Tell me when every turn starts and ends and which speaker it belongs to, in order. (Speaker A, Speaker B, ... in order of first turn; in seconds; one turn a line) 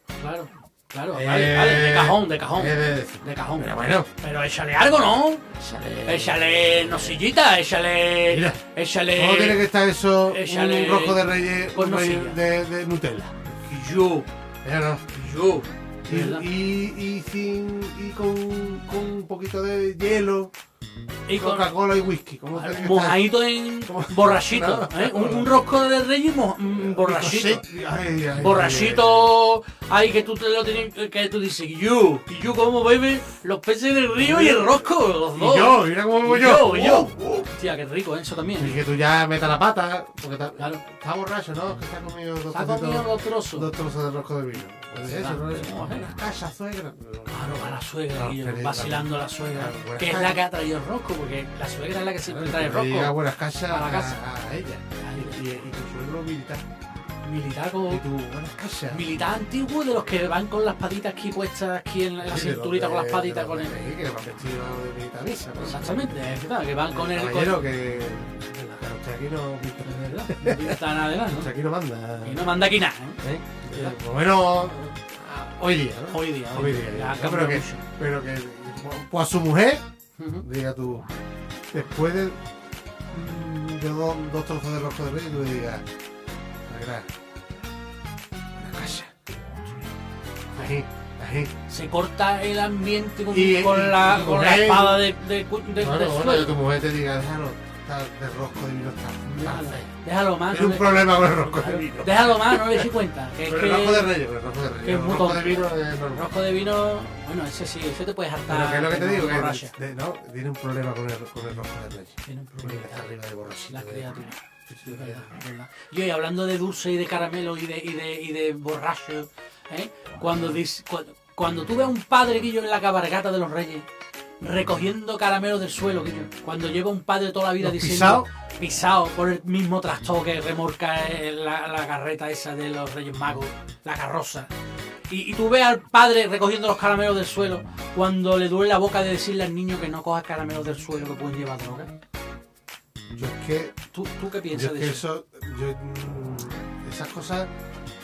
Speaker A: 0.2-5.5
Speaker B: 1.1-4.1
Speaker B: 5.5-7.2
Speaker A: 6.1-9.6
Speaker B: 8.3-8.6
Speaker B: 9.1-13.4
Speaker A: 10.3-12.4
Speaker A: 13.6-14.3
Speaker B: 14.6-15.0
Speaker A: 15.1-16.5
Speaker B: 16.1-20.5
Speaker A: 21.3-21.7
Speaker B: 21.4-25.6
Speaker A: 22.5-27.6
Speaker B: 26.8-29.3
Speaker A: 28.4-38.8
Speaker B: 34.2-37.5
Speaker B: 38.6-50.4
Speaker A: 42.5-43.7
Speaker A: 45.0-46.1
Speaker A: 47.3-53.2
Speaker B: 52.2-56.6
Speaker A: 53.7-54.2
Speaker A: 55.0-55.4
Speaker A: 57.2-58.0
Speaker B: 57.9-59.1
Speaker A: 58.9-63.7
Speaker B: 62.2-72.6
Speaker A: 65.6-67.7
Speaker A: 68.5-68.8
Speaker A: 69.8-71.5
Speaker A: 72.2-74.0
Speaker B: 73.2-79.9
Speaker A: 76.1-77.8
Speaker A: 80.2-80.5
Speaker B: 80.4-81.1
Speaker B: 81.7-82.4
Speaker B: 83.1-85.9
Speaker B: 86.7-87.1
Speaker B: 88.6-89.1
Speaker B: 90.5-91.5
Speaker A: 91.7-96.6
Speaker B: 93.3-95.1
Speaker B: 95.8-99.9
Speaker A: 99.3-104.1
Speaker B: 100.5-102.9
Speaker B: 103.5-106.3
Speaker A: 104.8-109.8
Speaker B: 108.5-115.3
Speaker A: 112.3-113.1
Speaker A: 113.7-123.9
Speaker A: 124.4-134.5
Speaker B: 127.6-128.3
Speaker A: 135.1-141.9
Speaker B: 143.2-143.8
Speaker A: 143.9-145.1
Speaker B: 144.5-147.5